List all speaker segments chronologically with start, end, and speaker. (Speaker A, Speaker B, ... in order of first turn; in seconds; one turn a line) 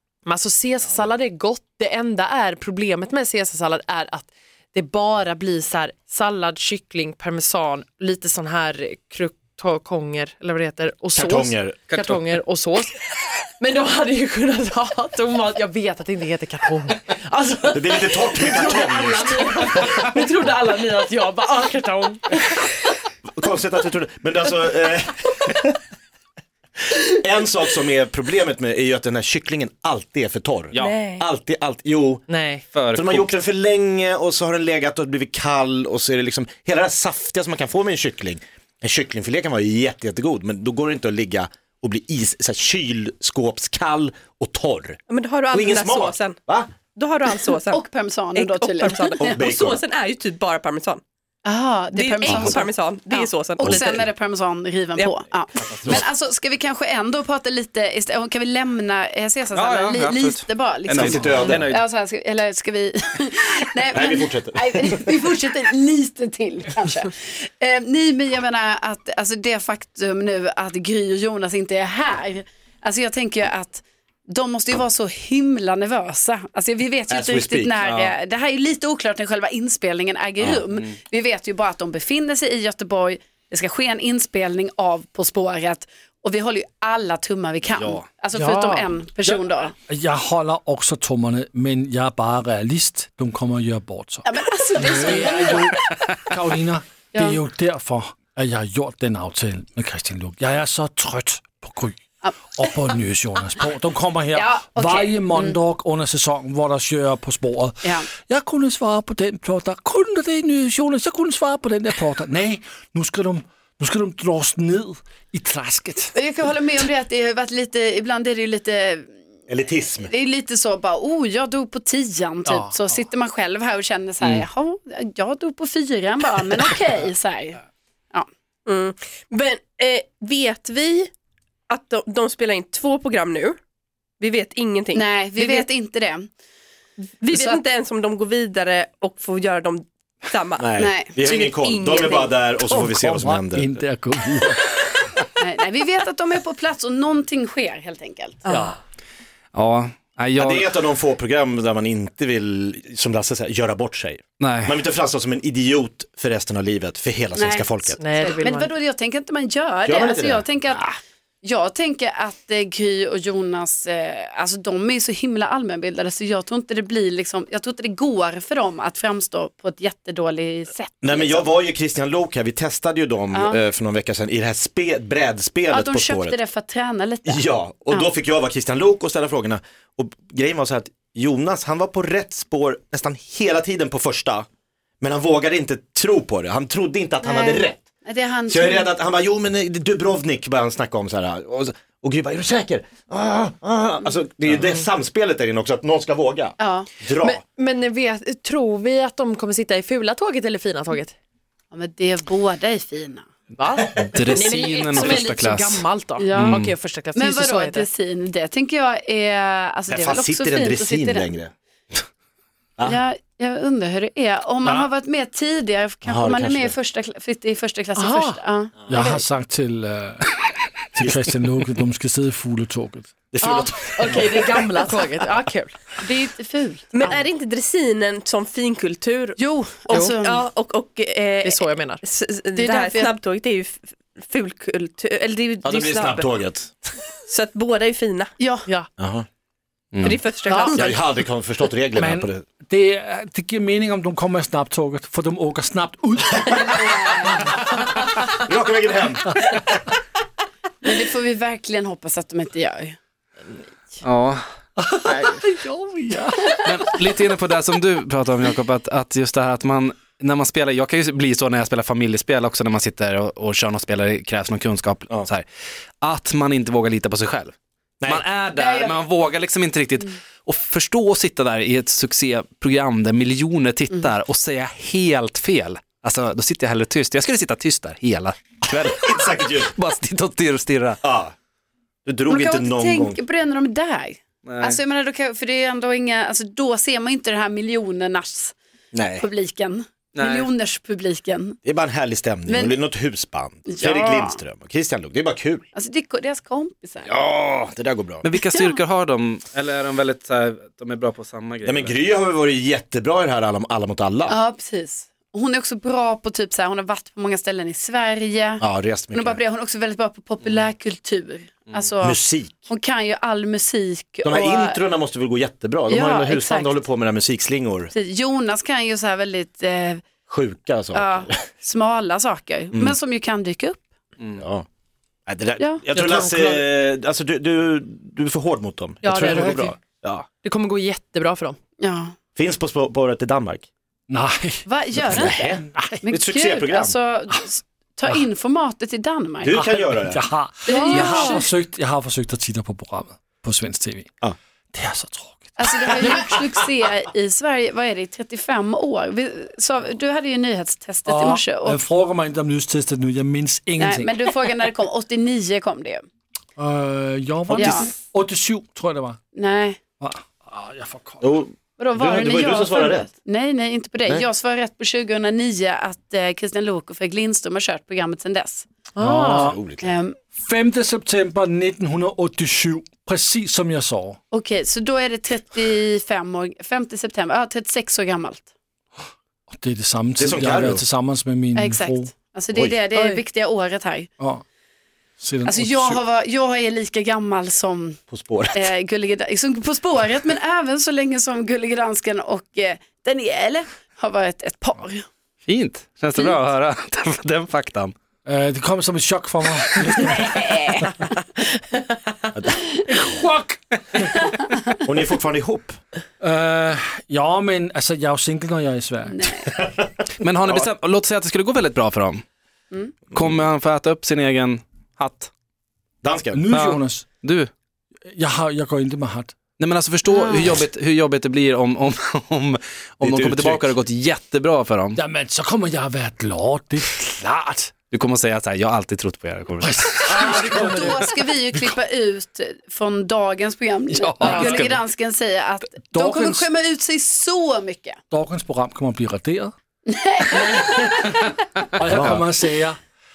Speaker A: 0.2-23.0
Speaker B: 11.1-11.8
Speaker C: 11.9-12.2
Speaker B: 17.7-19.9
Speaker B: 23.3-25.7
Speaker B: 27.1-32.2
Speaker C: 30.7-31.0
Speaker A: 30.7-31.2
Speaker A: 32.3-32.6
Speaker C: 32.7-33.3
Speaker B: 32.9-45.0
Speaker D: 45.1-46.4
Speaker B: 45.5-46.7
Speaker D: 46.9-51.0
Speaker E: 47.7-49.4
Speaker B: 49.2-49.8
Speaker E: 51.4-89.7
Speaker D: 51.9-54.0
Speaker B: 52.3-52.6
Speaker B: 53.6-54.1
Speaker C: 59.5-61.8
Speaker B: 61.0-61.7
Speaker B: 63.9-65.1
Speaker B: 77.1-77.7
Speaker C: 77.8-78.1
Speaker C: 80.6-80.9
Speaker C: 87.7-88.1
Speaker F: 88.3-102.0
Speaker E: 94.2-95.8
Speaker E: 97.1-97.4
Speaker F: 102.5-116.1
Speaker E: 104.3-105.6
Speaker E: 107.8-108.1
Speaker E: 116.1-119.1
Speaker B: 119.5-120.1
Speaker E: 120.0-127.6
Speaker D: 128.7-131.1
Speaker D: 131.7-133.6
Speaker D: 134.2-135.7
Speaker E: 134.9-136.3
Speaker D: 137.2-142.4
Speaker E: 137.3-137.6
Speaker B: 140.6-143.7
Speaker E: 140.8-141.1
Speaker F: 142.7-144.8
Speaker E: 145.4-148.5
Speaker A: 148.4-148.8
Speaker C: 149.5-150.7
Speaker B: 150.4-158.0
Speaker C: 154.4-154.8
Speaker E: 157.3-171.5
Speaker A: 158.0-158.7
Speaker B: 159.8-160.5
Speaker B: 171.0-176.4
Speaker E: 173.3-173.6
Speaker E: 175.7-178.1
Speaker B: 177.2-184.4
Speaker B: 185.0-187.8
Speaker E: 187.2-188.9
Speaker B: 188.5-197.4
Speaker E: 196.6-196.9
Speaker A: 197.2-201.1
Speaker E: 201.7-203.3
Speaker A: 203.6-207.9
Speaker C: 204.0-205.8
Speaker E: 206.2-206.6
Speaker C: 206.4-206.7
Speaker E: 207.1-211.3
Speaker B: 209.9-211.5
Speaker E: 212.8-219.2
Speaker B: 216.0-216.7
Speaker A: 217.9-218.4
Speaker F: 218.9-220.4
Speaker F: 220.9-223.3
Speaker B: 221.0-221.3
Speaker B: 223.3-224.5
Speaker A: 223.4-225.9
Speaker E: 226.0-227.2
Speaker D: 226.9-229.4
Speaker E: 229.4-230.4
Speaker D: 229.9-236.4
Speaker A: 231.4-232.0
Speaker E: 232.5-233.1
Speaker B: 235.6-236.7
Speaker D: 237.2-238.3
Speaker E: 238.4-238.7
Speaker B: 239.0-239.2
Speaker D: 240.0-241.0
Speaker A: 240.4-240.8
Speaker B: 240.7-242.4
Speaker F: 241.9-247.6
Speaker E: 246.7-247.4
Speaker B: 248.3-249.6
Speaker E: 250.8-253.0
Speaker C: 254.0-254.4
Speaker F: 254.8-256.6
Speaker B: 255.1-255.4
Speaker C: 256.6-265.5
Speaker C: 266.0-267.5
Speaker C: 268.1-281.0
Speaker E: 268.5-269.0
Speaker B: 278.7-279.7
Speaker B: 281.0-281.3
Speaker B: 282.0-283.2
Speaker E: 282.3-288.6
Speaker C: 284.4-284.8
Speaker B: 288.9-289.3
Speaker E: 289.1-291.6
Speaker C: 290.1-290.5
Speaker B: 291.6-295.6
Speaker E: 292.5-292.8
Speaker E: 293.7-294.4
Speaker E: 295.7-297.1
Speaker B: 297.0-298.2
Speaker C: 298.2-302.0
Speaker E: 298.5-298.8
Speaker B: 301.6-304.4
Speaker E: 304.3-314.8
Speaker B: 308.6-309.4
Speaker B: 312.0-312.6
Speaker B: 314.2-317.9
Speaker E: 315.9-316.8
Speaker E: 317.9-320.0
Speaker B: 320.3-321.3
Speaker E: 320.9-323.9
Speaker B: 324.4-324.6
Speaker B: 325.3-330.2
Speaker A: 325.9-326.7
Speaker A: 329.0-331.6
Speaker F: 329.3-329.6
Speaker E: 331.8-332.1
Speaker B: 332.4-333.6
Speaker F: 334.1-336.1
Speaker E: 334.6-339.6
Speaker B: 335.1-337.0
Speaker B: 339.4-340.2
Speaker F: 339.5-344.1
Speaker E: 340.6-341.4
Speaker A: 340.6-341.5
Speaker F: 344.7-346.3
Speaker E: 345.6-351.8
Speaker F: 351.1-354.4
Speaker E: 353.8-356.0
Speaker F: 356.6-359.2
Speaker B: 357.5-357.9
Speaker E: 357.6-357.9
Speaker E: 359.3-359.8
Speaker F: 360.0-361.3
Speaker B: 361.2-363.1
Speaker E: 361.8-368.7
Speaker A: 368.9-369.6
Speaker F: 369.0-369.6
Speaker B: 369.4-369.9
Speaker E: 369.8-370.2
Speaker F: 370.4-374.2
Speaker E: 374.3-378.5
Speaker F: 379.5-382.1
Speaker B: 380.2-380.8
Speaker E: 381.5-384.1
Speaker B: 382.5-382.8
Speaker A: 382.9-383.2
Speaker F: 385.2-386.0
Speaker E: 385.4-388.0
Speaker B: 388.1-388.7
Speaker E: 388.5-395.0
Speaker C: 395.4-397.9
Speaker F: 398.2-400.3
Speaker E: 399.8-401.0
Speaker F: 402.9-404.2
Speaker B: 404.8-405.8
Speaker F: 406.2-409.4
Speaker E: 409.1-409.5
Speaker C: 410.2-412.2
Speaker C: 413.1-415.3
Speaker B: 416.0-416.4
Speaker F: 416.3-417.1
Speaker C: 416.5-417.5
Speaker F: 418.1-419.3
Speaker C: 419.6-425.0
Speaker E: 420.1-420.6
Speaker B: 423.0-423.7
Speaker F: 424.9-427.7
Speaker C: 427.9-430.0
Speaker F: 429.6-430.9
Speaker E: 430.1-438.0
Speaker F: 433.9-434.6
Speaker C: 434.2-434.8
Speaker F: 435.7-436.4
Speaker F: 438.1-439.5
Speaker E: 439.9-441.3
Speaker F: 440.6-441.1
Speaker F: 441.8-442.8
Speaker B: 441.9-442.2